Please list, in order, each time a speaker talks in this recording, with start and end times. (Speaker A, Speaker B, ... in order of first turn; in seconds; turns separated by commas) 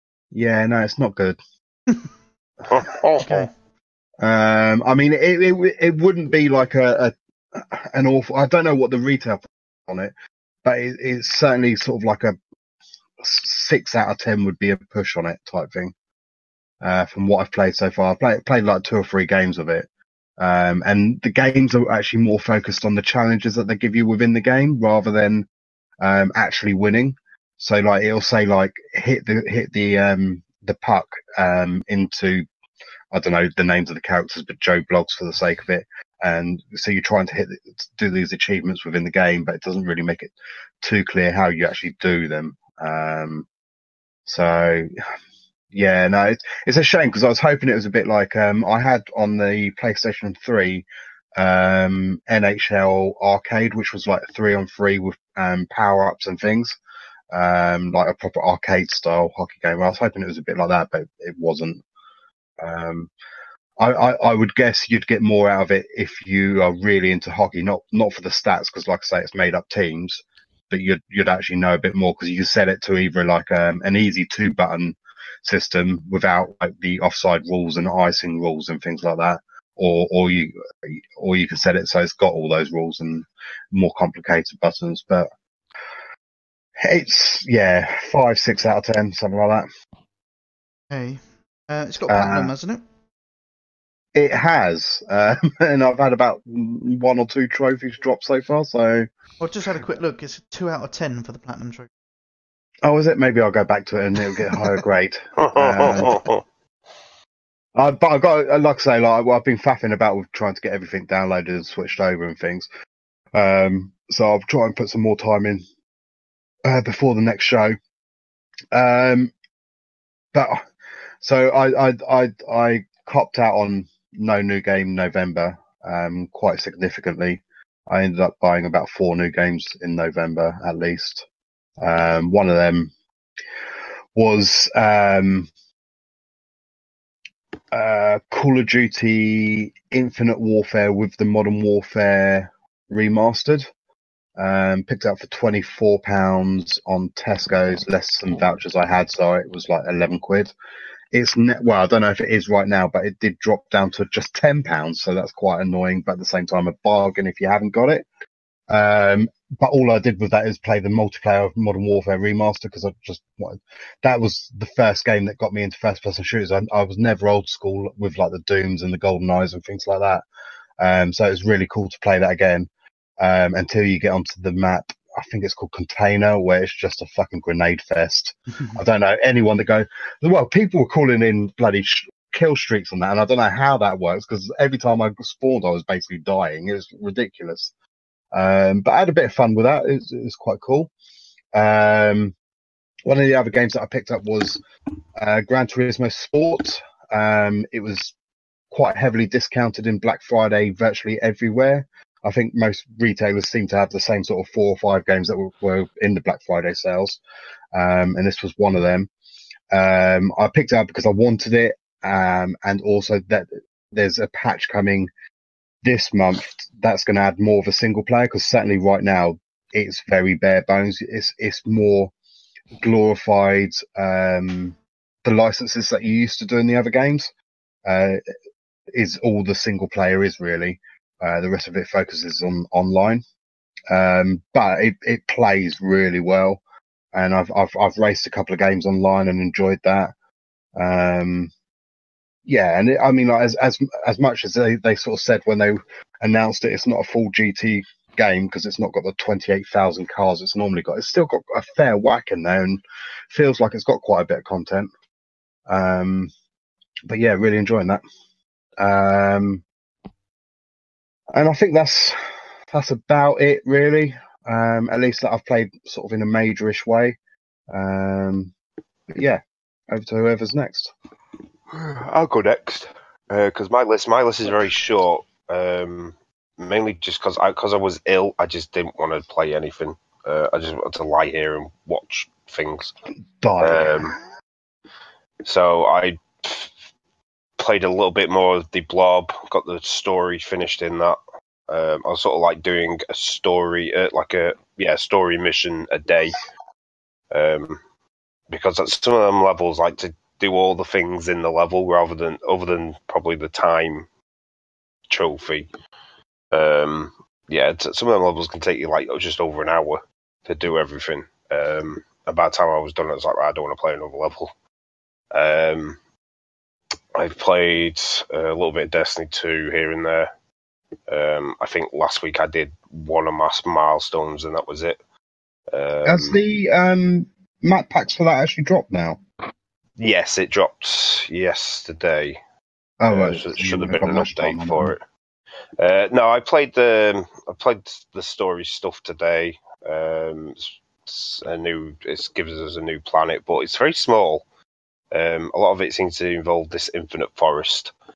Speaker A: 0.3-1.4, Speaker B: 2.7-3.3, Speaker C: 3.2-3.5, Speaker A: 4.2-10.1, Speaker A: 10.6-12.4, Speaker A: 13.2-15.9, Speaker A: 16.8-19.9, Speaker A: 20.4-25.5, Speaker A: 26.0-32.5, Speaker A: 33.1-43.5, Speaker A: 44.2-44.9, Speaker A: 45.7-56.8, Speaker A: 57.3-61.8, Speaker A: 62.6-63.1, Speaker A: 63.8-85.3, Speaker A: 86.8-89.7, Speaker C: 90.9-92.8, Speaker A: 92.1-92.5, Speaker A: 94.1-99.1, Speaker C: 99.4-101.9, Speaker A: 102.8-106.2, Speaker B: 105.4-106.4, Speaker A: 107.7-112.7, Speaker A: 113.3-115.6, Speaker A: 116.6-117.8, Speaker A: 118.7-119.3, Speaker A: 120.3-120.7, Speaker A: 121.2-131.2, Speaker A: 131.8-132.9, Speaker A: 134.1-135.5, Speaker A: 137.7-143.7, Speaker A: 144.4-150.5, Speaker A: 151.1-158.1, Speaker A: 158.7-170.2, Speaker A: 170.8-187.7, Speaker C: 178.5-178.8, Speaker A: 188.3-190.9, Speaker A: 191.5-192.3, Speaker A: 193.1-194.6, Speaker A: 195.2-198.1, Speaker A: 198.7-207.2, Speaker A: 207.7-209.1, Speaker A: 209.7-215.1, Speaker A: 215.8-222.1, Speaker A: 222.8-227.3, Speaker A: 227.8-228.2, Speaker A: 228.9-233.2, Speaker A: 233.9-236.6, Speaker A: 237.1-240.1, Speaker A: 240.8-241.5, Speaker A: 242.4-254.9, Speaker A: 255.7-256.3, Speaker A: 257.1-258.0, Speaker A: 258.8-259.6, Speaker A: 261.3-262.2, Speaker A: 262.7-267.2, Speaker A: 267.7-268.5, Speaker A: 269.1-270.9, Speaker B: 271.7-282.9, Speaker A: 283.4-284.2, Speaker B: 283.6-284.1, Speaker B: 285.4-286.8, Speaker B: 287.6-296.4, Speaker B: 297.3-297.8, Speaker B: 298.5-304.1, Speaker B: 305.1-305.7, Speaker B: 306.5-314.5, Speaker B: 315.3-316.0, Speaker B: 317.1-320.3, Speaker B: 321.1-325.0, Speaker B: 325.7-326.4, Speaker A: 326.0-329.2, Speaker B: 330.0-332.4, Speaker A: 333.0-334.9, Speaker B: 333.1-335.0, Speaker B: 335.8-344.4, Speaker B: 345.1-347.9